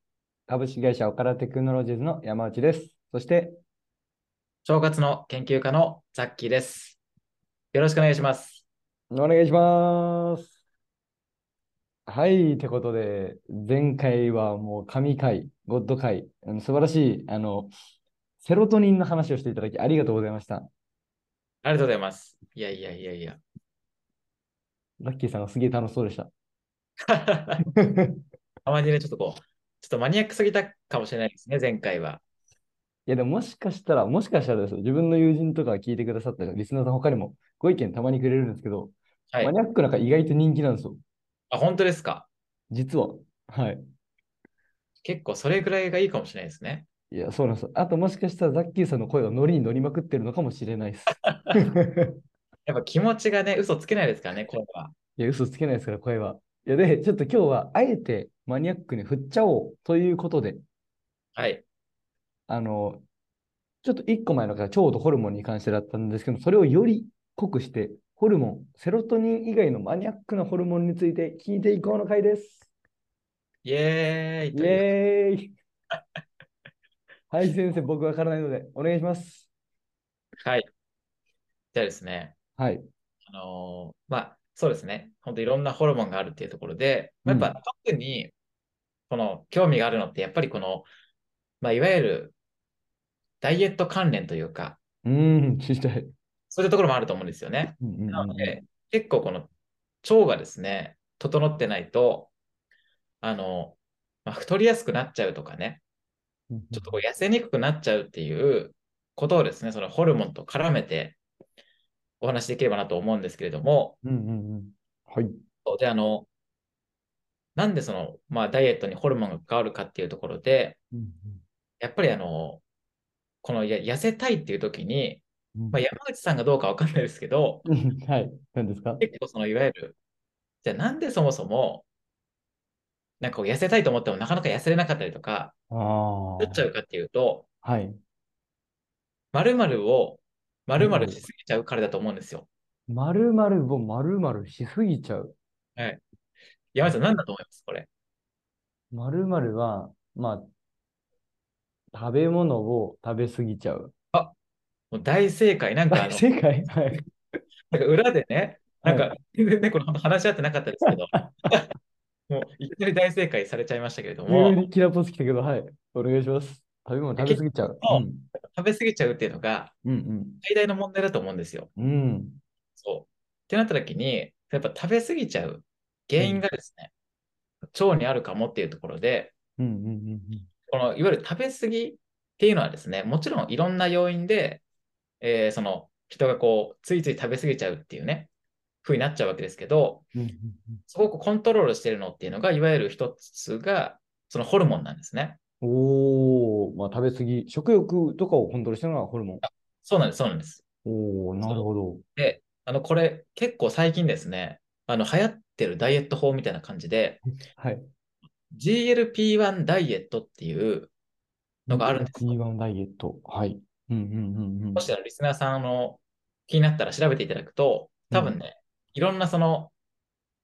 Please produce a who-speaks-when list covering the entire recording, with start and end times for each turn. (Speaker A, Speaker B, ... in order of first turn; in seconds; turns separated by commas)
Speaker A: 0.5-3.6, Speaker B: 4.6-7.0, Speaker B: 7.7-8.6, Speaker A: 9.1-10.5, Speaker A: 12.1-17.7, Speaker A: 18.4-20.7, Speaker B: 21.6-23.4, Speaker A: 25.0-26.3, Speaker B: 27.1-27.6, Speaker A: 27.8-28.2, Speaker B: 28.6-32.2, Speaker A: 33.1-41.0, Speaker B: 41.5-42.3, Speaker A: 42.7-43.8, Speaker B: 45.0-46.9, Speaker A: 47.1-52.2, Speaker B: 51.2-51.6, Speaker B: 52.6-54.9, Speaker A: 55.2-60.6, Speaker B: 61.4-61.6, Speaker A: 62.5-63.0, Speaker A: 63.8-72.7, Speaker B: 73.6-74.9, Speaker A: 74.5-75.5, Speaker A: 77.3-79.5, Speaker B: 80.4-80.7, Speaker B: 81.7-82.3, Speaker A: 82.6-82.8, Speaker B: 83.2-88.3, Speaker A: 87.2-87.5, Speaker B: 89.1-90.9, Speaker B: 91.6-92.3, Speaker B: 93.4-94.8, Speaker A: 95.0-96.1, Speaker B: 96.5-99.5, Speaker A: 97.8-98.6, Speaker B: 100.0-102.3, Speaker B: 103.2-105.8, Speaker A: 106.5-107.0, Speaker B: 106.7-111.2, Speaker B: 112.2-114.0, Speaker A: 114.0-115.3, Speaker B: 115.6-116.3, Speaker B: 117.5-120.8, Speaker A: 120.9-121.4, Speaker B: 121.8-122.6, Speaker B: 123.4-127.7, Speaker A: 127.7-129.0, Speaker B: 129.0-129.9, Speaker B: 130.6-131.8, Speaker B: 133.2-135.5, Speaker A: 135.7-136.7, Speaker B: 136.4-137.5, Speaker A: 137.6-138.0, Speaker B: 139.3-142.5, Speaker A: 140.8-141.2, Speaker A: 142.9-145.3, Speaker B: 146.7-147.9, Speaker A: 148.9-150.5, Speaker A: 151.9-153.9, Speaker B: 154.9-156.2, Speaker A: 155.9-157.0, Speaker B: 157.7-161.6, Speaker A: 158.8-159.1, Speaker A: 160.9-161.3, Speaker B: 162.3-164.6, Speaker A: 164.3-168.3, Speaker B: 167.2-168.0, Speaker B: 168.6-169.7, Speaker A: 169.8-170.4, Speaker B: 170.4-171.7, Speaker A: 171.8-172.4, Speaker B: 172.8-176.9, Speaker A: 176.2-176.4, Speaker B: 177.7-179.3, Speaker A: 179.6-180.4, Speaker B: 180.7-184.6, Speaker B: 185.2-188.3, Speaker B: 188.8-190.1, Speaker A: 190.1-190.8, Speaker B: 190.9-195.4, Speaker A: 195.6-199.4, Speaker B: 199.4-200.6, Speaker A: 200.8-202.0, Speaker B: 202.2-207.2, Speaker A: 207.6-207.8, Speaker B: 208.5-210.9, Speaker B: 211.7-212.3, Speaker A: 211.7-214.9, Speaker B: 214.7-219.7, Speaker A: 218.1-218.4